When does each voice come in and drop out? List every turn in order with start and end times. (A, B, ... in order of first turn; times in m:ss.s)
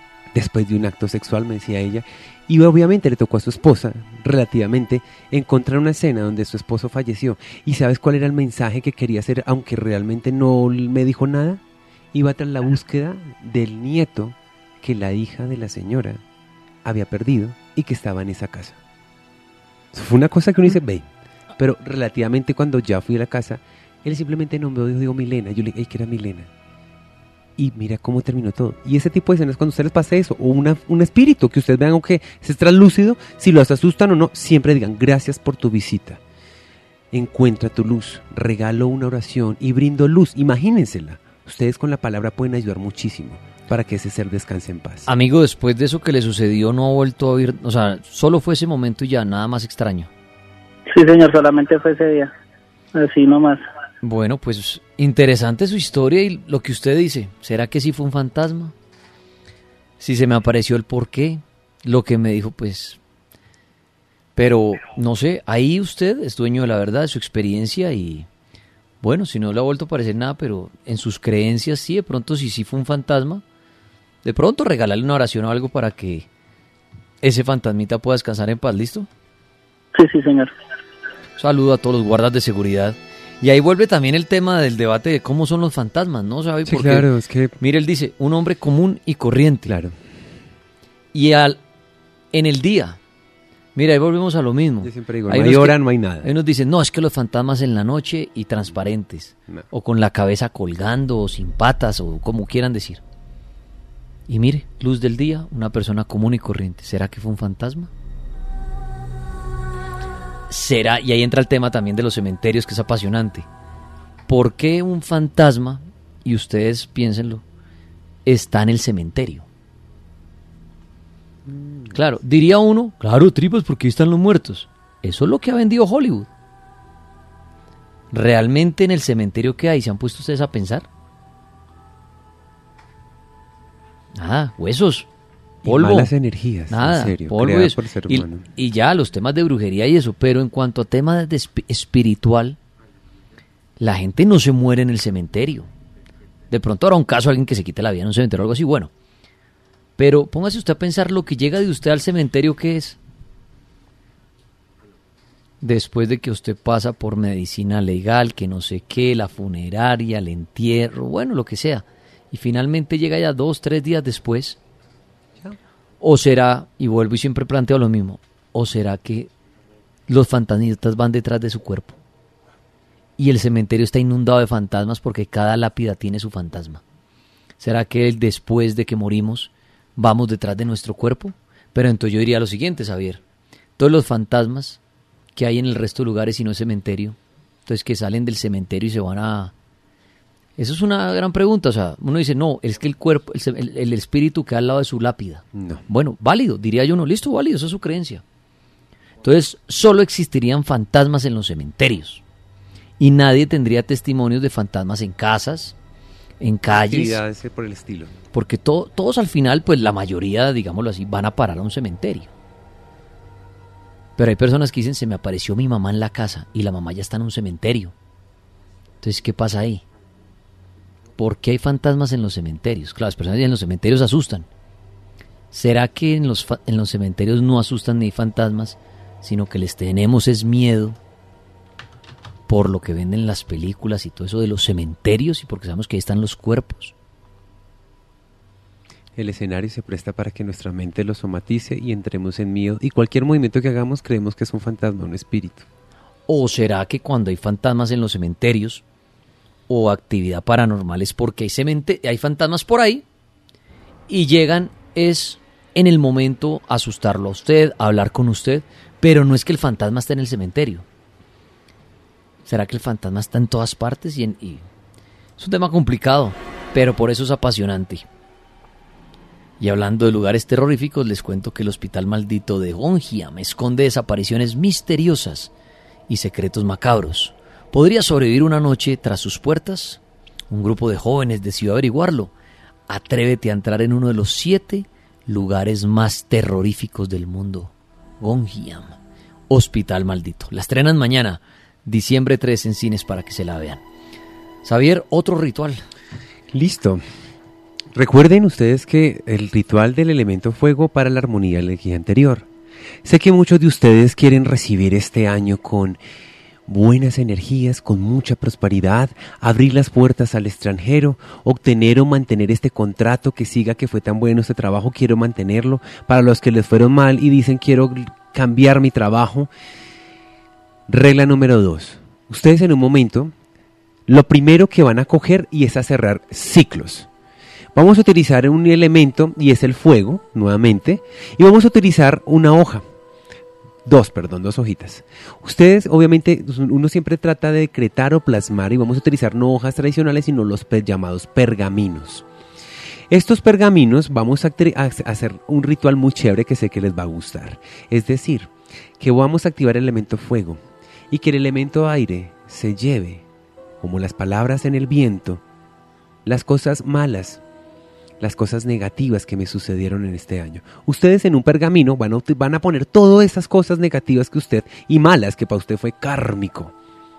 0:00.3-0:11.6 A
0:12.1-0:16.2 A
0:16.8-0:18.8 A
0:19.9-0:26.5 A
0:27.6-0:36.2 A
0:37.1-0:45.1 A
0:45.1-0:50.1 B
0:50.9-0:52.3 C
0:52.9-0:53.6 C
0:54.0-0:58.7 B
1:00.0-1:03.0 B
1:04.4-1:08.3 B
1:09.0-1:13.4 B
1:14.2-1:16.3 B
1:17.2-1:19.1 B
1:19.9-1:20.5 C
1:21.4-1:29.7 B
1:26.7-1:27.6 A
1:29.7-1:30.0 A
1:31.1-1:31.6 B
1:32.3-1:33.0 B
1:33.8-1:43.0 B
1:34.8-1:36.3 A
1:44.3-1:47.9 B
1:50.5-1:53.5 B
1:54.3-1:57.4 B
1:58.3-1:59.5 B
2:01.4-2:02.0 A
2:01.9-2:06.3 B
2:08.1-2:10.9 B
2:14.1-2:15.1 B
2:15.6-2:18.5 A
2:15.6-2:16.1 B
2:16.7-2:22.6 B
2:23.8-2:25.7 B
2:26.5-2:28.9 B
2:30.0-2:33.0 B
2:35.6-2:44.6 B
2:46.0-2:49.3 B
2:50.1-2:52.0 B
2:53.2-2:56.8 B
2:57.6-3:03.2 B
3:03.8-3:04.8 B
3:05.4-3:09.5 B
3:10.6-3:18.2 B
3:15.5-3:15.8 A
3:19.2-3:22.2 B
3:23.0-3:25.8 B
3:26.4-3:27.2 B
3:26.7-3:28.1 A
3:28.3-3:32.3 B
3:34.2-3:37.9 B
3:39.0-3:39.8 B
3:41.2-3:44.5 B
3:45.5-3:51.0 B
3:52.5-3:56.9 B
3:59.2-4:05.7 A
4:06.3-4:08.8 B
4:09.7-4:13.0 B
4:14.1-4:20.8 B
4:22.4-4:24.6 B
4:25.4-4:28.1 B
4:29.6-4:35.5 B
4:36.1-4:42.3 B
4:42.9-4:49.0 B
4:49.5-4:53.8 B
4:54.6-4:55.8 B
4:56.5-4:57.0 A
4:57.9-5:02.5 A
5:03.0-5:06.0 A
5:06.7-5:19.5 A
5:20.9-5:23.3 A
5:24.1-5:27.1 A
5:27.8-5:32.8 A
5:33.8-5:42.2 A
5:43.1-5:53.2 A
5:53.8-5:55.4 A
5:56.2-5:57.4 A
5:58.2-6:06.7 A